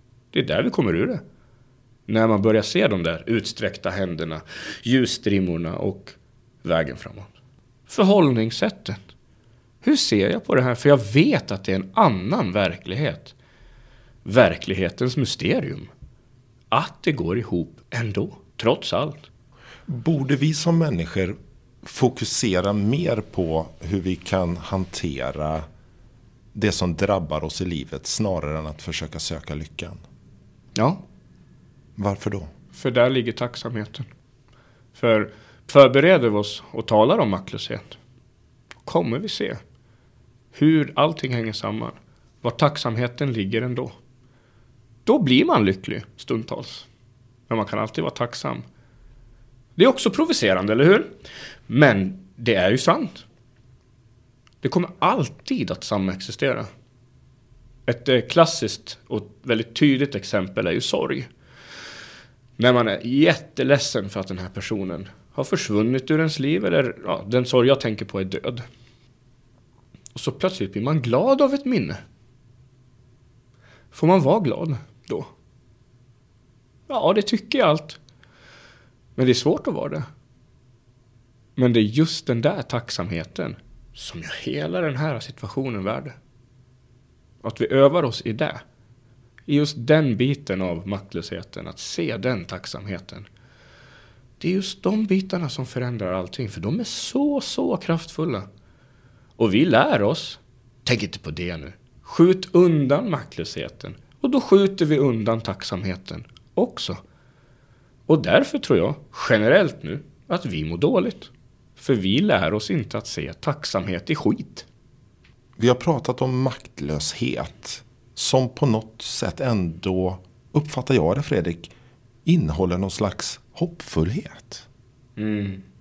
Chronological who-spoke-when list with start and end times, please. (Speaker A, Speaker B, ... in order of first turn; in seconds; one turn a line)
Speaker A: 0.3-1.2
Speaker A: 2.1-7.3
Speaker A: 7.9-9.0
Speaker A: 9.8-13.3
Speaker A: 14.2-15.9
Speaker A: 16.7-19.2
Speaker B: 19.9-25.6
Speaker B: 26.5-30.0
Speaker A: 30.8-31.0
Speaker B: 32.0-32.5
Speaker A: 32.7-34.0
Speaker A: 34.9-38.0
Speaker A: 38.9-39.6
Speaker A: 40.5-44.0
Speaker A: 45.0-46.9
Speaker A: 47.5-48.6
Speaker A: 49.8-51.1
Speaker A: 51.7-53.2
Speaker A: 54.6-56.7
Speaker A: 57.9-61.3
Speaker A: 62.6-68.6
Speaker A: 70.1-72.0
Speaker A: 73.9-75.3
Speaker A: 76.9-78.0
Speaker A: 79.2-80.0
Speaker A: 81.5-86.2
Speaker A: 87.4-88.6
Speaker A: 89.5-93.3
Speaker A: 94.4-98.5
Speaker A: 99.4-107.0
Speaker A: 108.1-114.7
Speaker B: 115.6-121.7
Speaker B: 122.2-124.7
Speaker A: 125.2-125.6